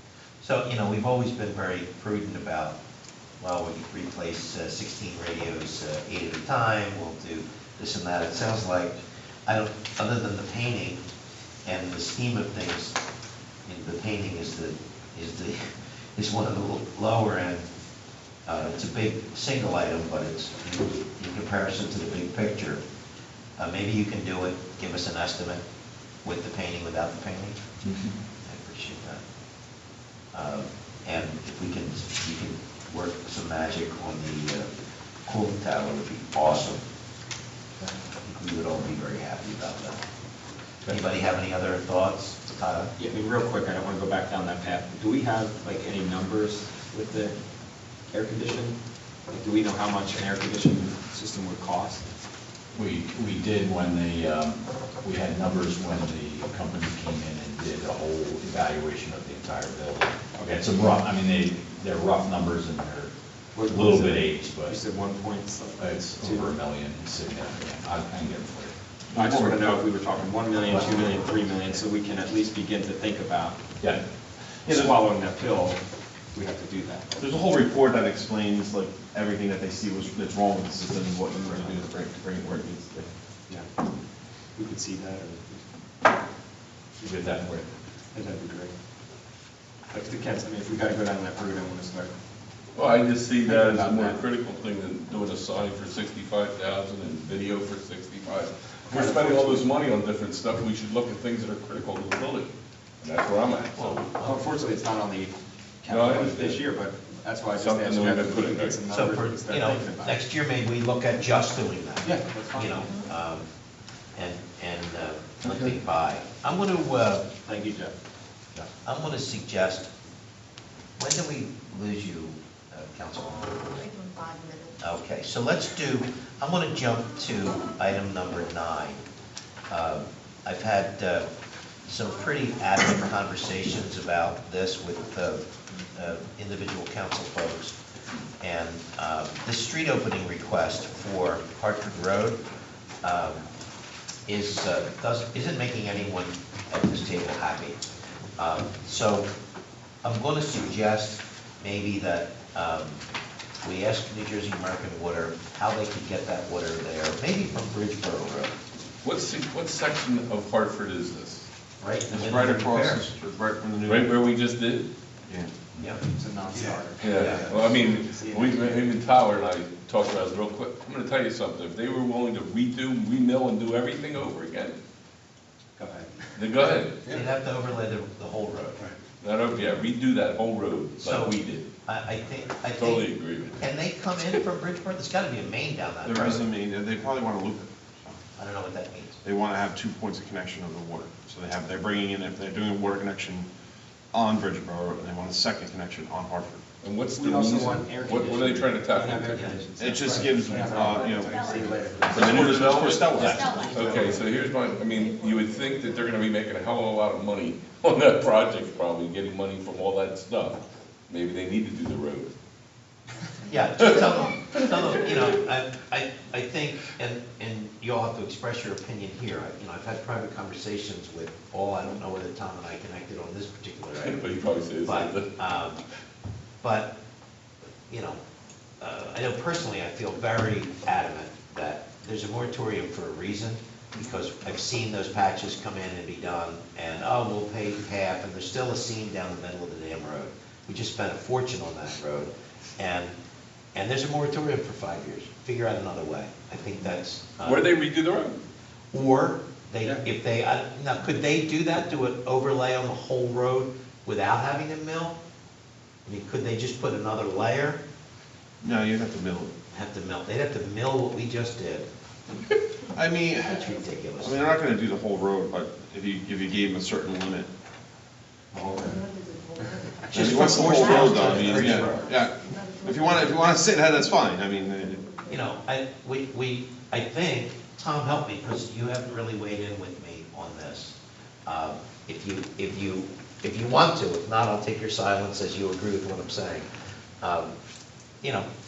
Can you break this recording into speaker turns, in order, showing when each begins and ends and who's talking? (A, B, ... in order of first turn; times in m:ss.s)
0:00.4-0:02.8 A
0:03.4-0:11.0 A
0:11.6-0:13.0 A
0:13.7-0:17.7 A
0:18.5-0:22.8 A
0:23.6-0:25.6 A
0:26.2-0:27.6 A
0:27.8-0:28.1 B
0:28.4-0:29.2 A
0:30.3-0:34.7 A
0:35.3-0:36.8 A
0:38.2-0:40.0 A
0:40.9-0:42.9 A
0:43.0-0:47.4 C
0:48.1-0:52.1 C
0:52.7-1:03.1 B
1:03.5-1:06.5 C
1:03.6-1:04.8 B
1:05.8-1:09.5 B
1:09.1-1:13.6 C
1:09.2-1:09.6 D
1:10.7-1:11.1 B
1:13.8-1:15.0 B
1:14.7-1:15.8 C
1:16.3-1:17.1 C
1:17.2-1:23.1 D
1:24.6-1:25.7 C
1:27.0-1:27.7 B
1:28.1-1:28.7 C
1:29.9-1:32.1 C
1:32.8-1:44.1 E
1:33.4-1:34.2 C
1:38.9-1:39.6 C
1:43.8-1:44.4 A
1:44.2-1:50.2 C
1:45.9-1:46.6 E
1:47.6-1:48.8 E
1:48.9-1:53.5 A
1:52.0-1:52.9 C
1:54.2-1:57.3 A
1:57.5-1:58.0 C
1:58.7-1:59.9 A
2:01.0-2:03.8 A
2:03.8-2:04.8 F
2:04.8-2:09.0 A
2:09.7-2:11.3 A
2:11.9-2:17.8 A
2:18.4-2:22.4 A
2:23.0-2:23.4 A
2:24.3-2:29.3 A
2:30.0-2:33.0 A
2:33.6-2:38.5 A
2:39.0-2:41.4 E
2:41.8-2:43.0 A
2:42.1-2:44.3 D
2:43.9-2:44.9 E
2:45.8-2:46.0 A
2:46.1-2:48.8 C
2:47.0-2:54.8 E
2:47.1-2:47.5 A
2:55.8-2:56.2 C
2:56.4-2:57.0 E
2:57.1-2:58.9 A
2:59.2-3:01.7 E
3:01.0-3:06.4 A
3:02.8-3:03.6 E
3:06.0-3:07.7 D
3:08.4-3:09.2 A
3:09.2-3:13.5 D
3:14.1-3:16.6 D
3:16.8-3:19.6 E
3:17.2-3:22.9 C
3:19.8-3:24.2 D
3:20.7-3:26.3 F
3:22.2-3:32.3 E
3:33.5-3:44.3 A
3:33.8-3:35.2 E
3:44.0-3:45.3 E
3:44.8-3:45.8 A
3:46.6-3:46.9 A
3:47.9-3:48.2 A
3:48.8-4:03.2 A
4:03.7-4:07.7 A
4:07.4-4:08.4 E
4:08.9-4:15.2 A
4:16.1-4:17.8 A
4:18.6-4:19.5 D
4:19.7-4:21.9 A
4:22.9-4:27.5 D
4:23.4-4:24.4 A
4:23.5-4:23.9 F
4:28.8-4:35.6 F
4:30.1-4:32.1 A
4:30.1-4:35.0 D
4:35.2-4:46.7 A
4:47.2-4:47.6 A
4:48.2-4:48.5 A